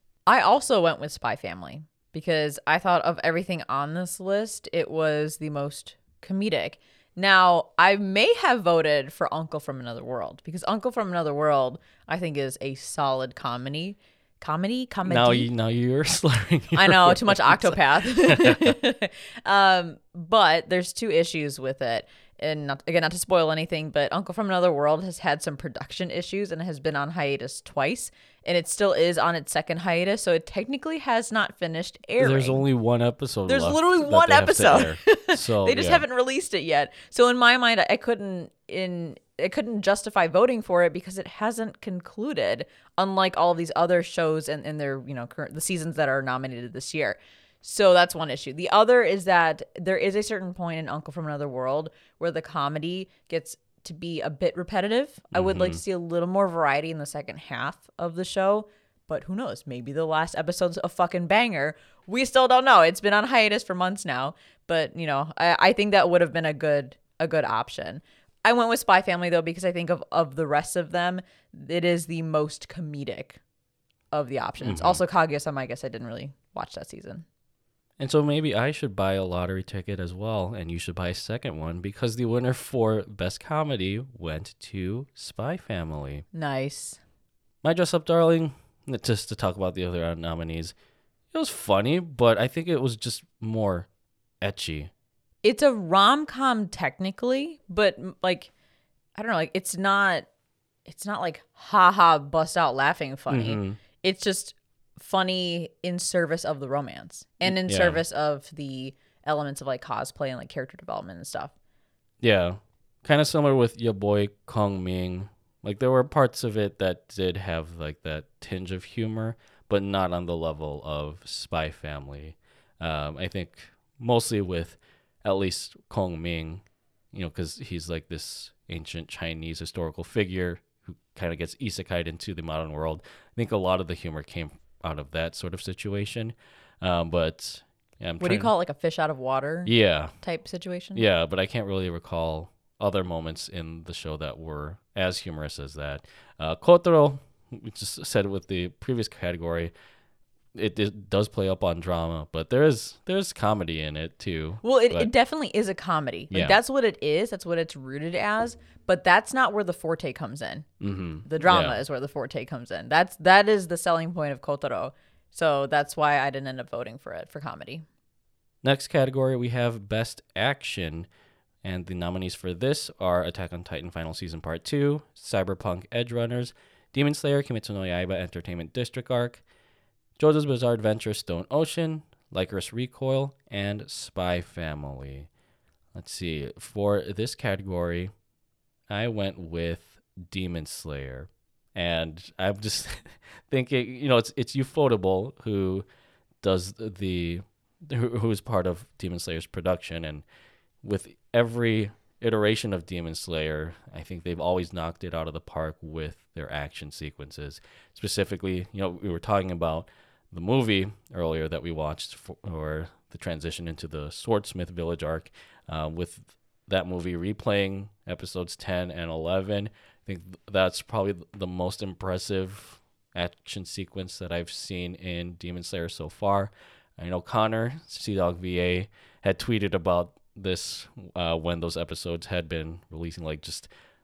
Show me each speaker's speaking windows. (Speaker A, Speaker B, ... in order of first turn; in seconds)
Speaker A: 0.3-15.5, 16.7-32.6, 33.5-73.4, 74.1-77.2, 86.3-87.0, 95.4-98.5, 99.2-100.3, 100.8-111.5, 138.2-141.0, 154.6-160.7, 161.2-167.8
Speaker B: 15.1-18.8, 32.2-36.0, 55.3-55.8, 74.6-75.0, 78.0-86.2, 87.6-90.7, 91.3-93.9, 94.4-94.9, 103.3-103.8, 107.4-108.0, 112.2-138.5, 139.7-140.1, 140.9-149.7, 150.5-155.1, 156.3-156.6, 160.8-161.8, 168.6-171.1, 171.6-179.4, 180.2-185.3, 185.9-188.1, 188.9-195.8, 196.4-200.2, 200.8-233.7